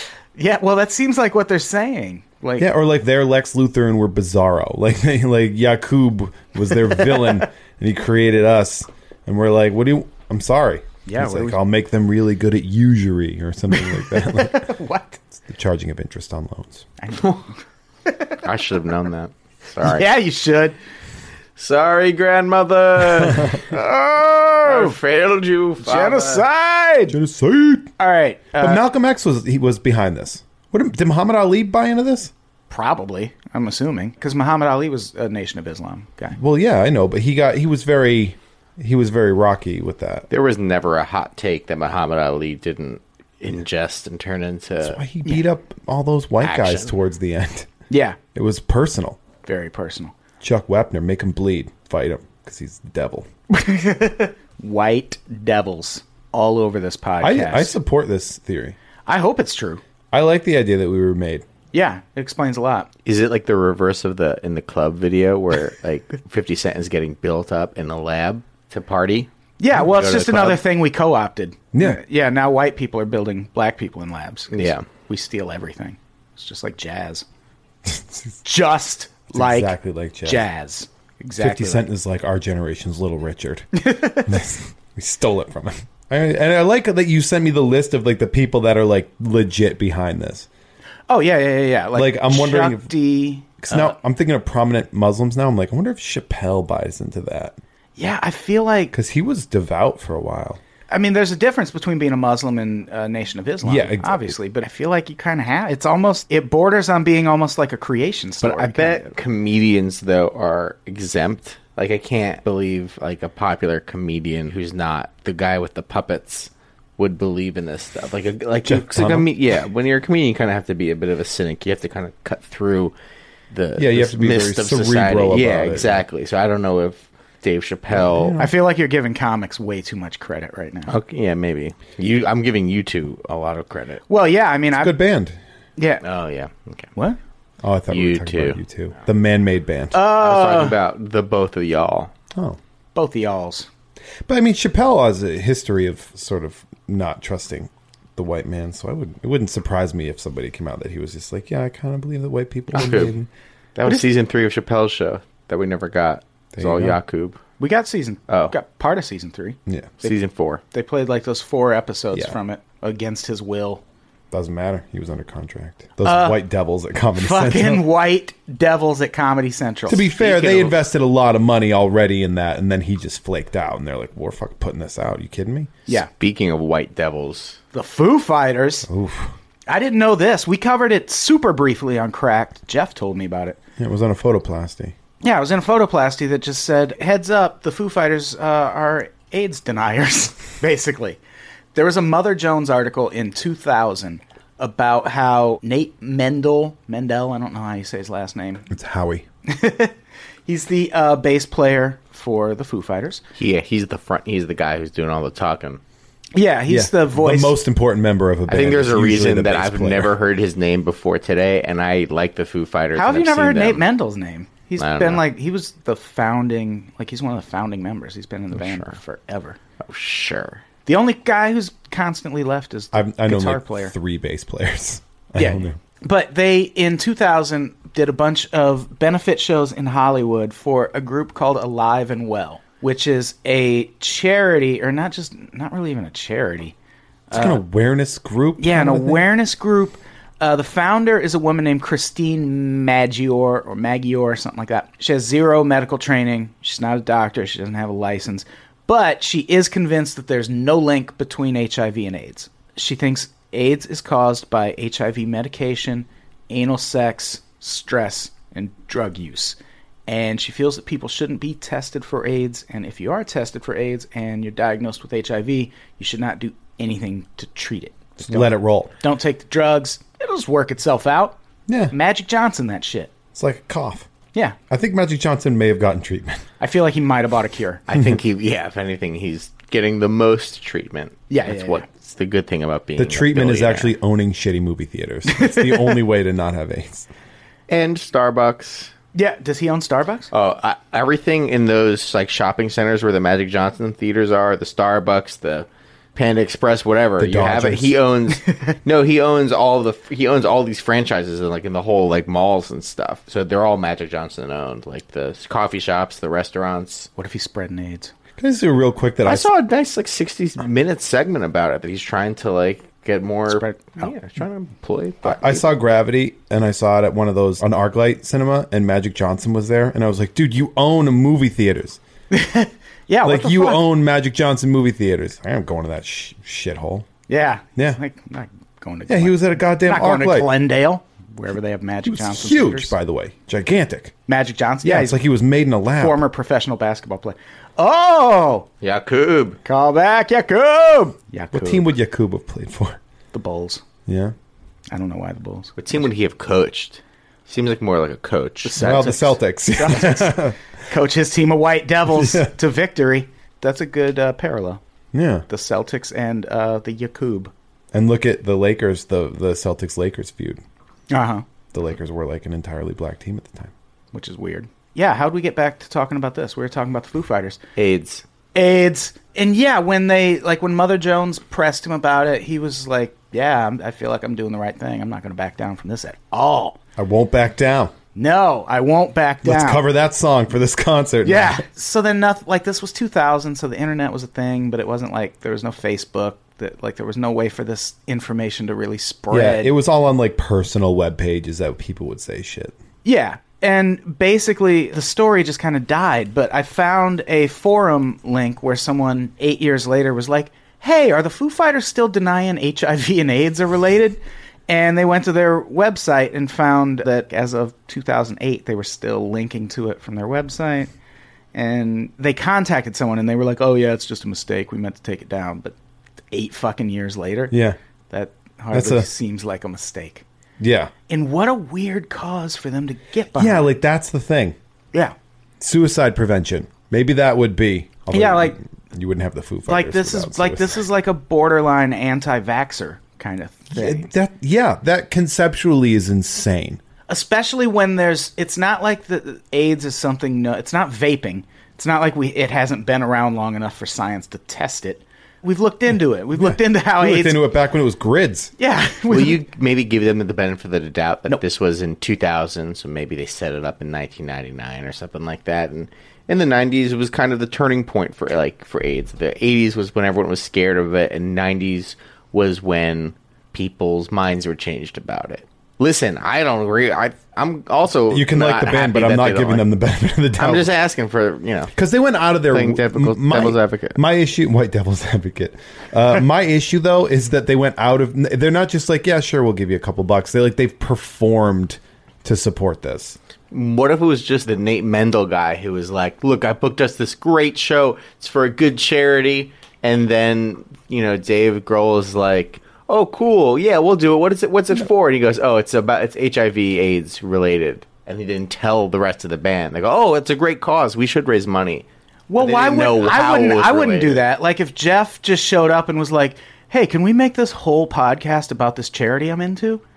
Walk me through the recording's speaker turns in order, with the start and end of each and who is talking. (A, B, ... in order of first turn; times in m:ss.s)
0:00.4-0:02.7 A
0:02.6-0:14.8 B
0:07.0-0:07.4 A
0:11.1-0:11.6 A
0:13.7-0:15.2 A
0:15.3-0:16.9 B
0:17.0-0:17.5 A
0:18.1-0:18.4 A
0:18.4-0:20.1 C
0:19.8-0:20.8 A
0:21.6-0:23.8 C
0:23.3-0:23.6 B
0:23.6-0:25.0 A
0:24.6-0:26.4 C
0:25.8-0:27.2 A
0:27.1-0:27.9 B
0:28.0-0:28.8 A
0:28.6-0:32.3 B
0:32.7-0:36.4 A
0:36.4-0:40.3 B
0:40.3-0:45.0 C
0:44.8-0:47.7 B
0:46.4-0:46.9 C
0:47.9-0:48.2 A
0:48.4-0:49.2 B
0:49.4-0:50.1 A
0:50.4-0:53.3 B
0:53.5-0:57.8 A
0:57.2-0:58.8 B
0:59.1-0:59.8 A
1:00.1-1:01.5 B
1:01.7-1:02.9 A
1:03.1-1:10.6 C
1:09.6-1:17.2 A
1:11.7-1:12.0 B
1:14.5-1:14.9 C
1:17.9-1:18.4 B
1:18.4-1:21.9 A
1:19.3-1:20.4 B
1:21.4-1:30.5 B
1:23.8-1:24.4 A
1:31.1-1:33.9 A
1:31.9-1:32.9 B
1:33.6-1:37.6 B
1:38.0-1:38.9 A
1:38.9-1:40.6 B
1:40.9-1:49.2 A
1:43.6-1:44.4 B
1:48.4-2:03.0 C
1:58.7-1:59.3 B
2:03.5-2:08.4 C
2:03.8-2:06.0 B
2:07.9-2:08.5 B
2:08.4-2:10.9 A
2:10.9-2:14.0 C
2:14.1-2:15.0 A
2:14.8-2:15.4 B
2:15.8-2:16.0 A
2:16.0-2:16.9 C
2:17.6-2:20.0 B
2:17.9-2:18.6 C
2:19.9-2:20.8 A
2:20.2-2:22.1 C
2:22.3-2:22.6 B
2:23.0-2:23.7 A
2:24.3-2:33.3 B
2:32.7-2:33.1 C
2:33.8-2:37.4 C
2:36.6-2:37.0 B
2:37.6-2:40.2 A
2:38.3-2:38.5 C
2:39.7-2:39.9 B
2:40.0-2:40.6 C
2:40.7-2:43.8 A
2:44.3-2:47.8 B
2:46.0-2:46.4 A
2:47.2-2:50.2 A
2:49.9-2:55.7 B
2:50.2-2:50.7 C
2:55.9-2:57.6 C
2:57.7-2:58.9 A
2:58.9-2:59.4 B
2:59.7-3:03.6 A
3:03.8-3:05.0 B
3:05.2-3:11.2 A
3:11.8-3:18.7 A
3:18.7-3:19.3 B
3:19.5-3:19.9 A
3:20.5-3:23.2 A
3:23.4-3:25.8 C
3:26.4-3:27.6 A
3:26.7-3:30.1 B
3:28.5-3:33.8 C
3:33.0-3:39.6 A
3:34.8-3:35.2 C
3:38.5-3:39.0 C
3:39.8-3:40.6 C
3:40.9-3:43.9 A
3:42.9-3:45.8 B
3:45.4-3:56.8 A
3:57.3-3:57.6 A
3:57.3-3:59.2 B
3:58.6-4:31.4 A
4:28.2-4:28.9 B
4:31.7-4:31.9 B
4:31.9-4:33.1 A
4:33.3-4:34.1 B
4:34.7-4:36.4 B
4:36.6-4:37.8 A
4:37.9-4:43.9 C
4:41.3-4:41.8 A
4:43.0-4:47.1 B
4:45.3-4:46.0 A
4:47.7-4:48.9 C
4:49.1-4:50.3 A
4:50.3-5:07.1 C
4:57.2-4:58.0 B
5:07.2-5:08.1 A
5:08.4-5:09.5 B
5:09.2-5:15.7 C
5:13.5-5:14.1 A
5:15.2-5:22.0 B
5:22.3-5:23.8 A
5:23.2-5:27.1 B
5:27.3-5:32.9 A
5:29.1-5:30.5 B
5:32.0-5:34.2 B
5:34.3-5:35.2 A
5:34.8-5:36.2 B
5:36.0-5:38.7 A
5:38.8-5:39.6 C
5:39.6-5:41.9 A
5:41.5-5:43.0 B
5:43.3-5:43.8 A
5:44.1-5:44.4 B
5:44.9-5:45.8 A
5:45.8-5:49.3 C
5:48.7-5:49.2 A
5:48.8-5:50.6 B
5:49.8-5:54.8 A
5:52.1-5:52.5 B
5:55.1-5:55.5 B
5:55.5-5:57.5 A
5:57.9-6:00.6 B
6:01.1-6:01.4 A
6:01.7-6:03.7 B
6:04.1-6:07.6 A
6:07.8-6:08.2 C
6:08.6-6:16.8 A
6:17.0-6:17.9 B
6:18.2-6:19.8 A
6:19.4-6:21.6 B
6:21.2-6:29.7 A
6:29.3-6:32.8 B
6:33.0-6:50.9 A
6:51.5-6:55.8 A
6:56.3-6:57.6 A
6:57.5-6:57.8 B
6:58.1-7:00.2 A
6:58.7-6:59.1 B
7:00.6-7:00.9 B
7:01.1-7:03.7 A
7:03.4-7:04.6 B
7:05.6-7:10.8 B
7:08.1-7:08.6 A
7:09.7-7:14.1 A
7:13.7-7:16.8 B
7:17.1-7:27.4 A
7:26.4-7:28.5 B
7:28.6-7:29.4 A
7:29.1-7:49.7 C
7:48.1-7:50.7 B
7:50.4-7:51.7 C
7:51.8-8:03.2 B
7:52.5-7:54.0 C
8:03.5-8:21.9 C
8:22.3-8:29.8 A
8:22.4-8:24.2 C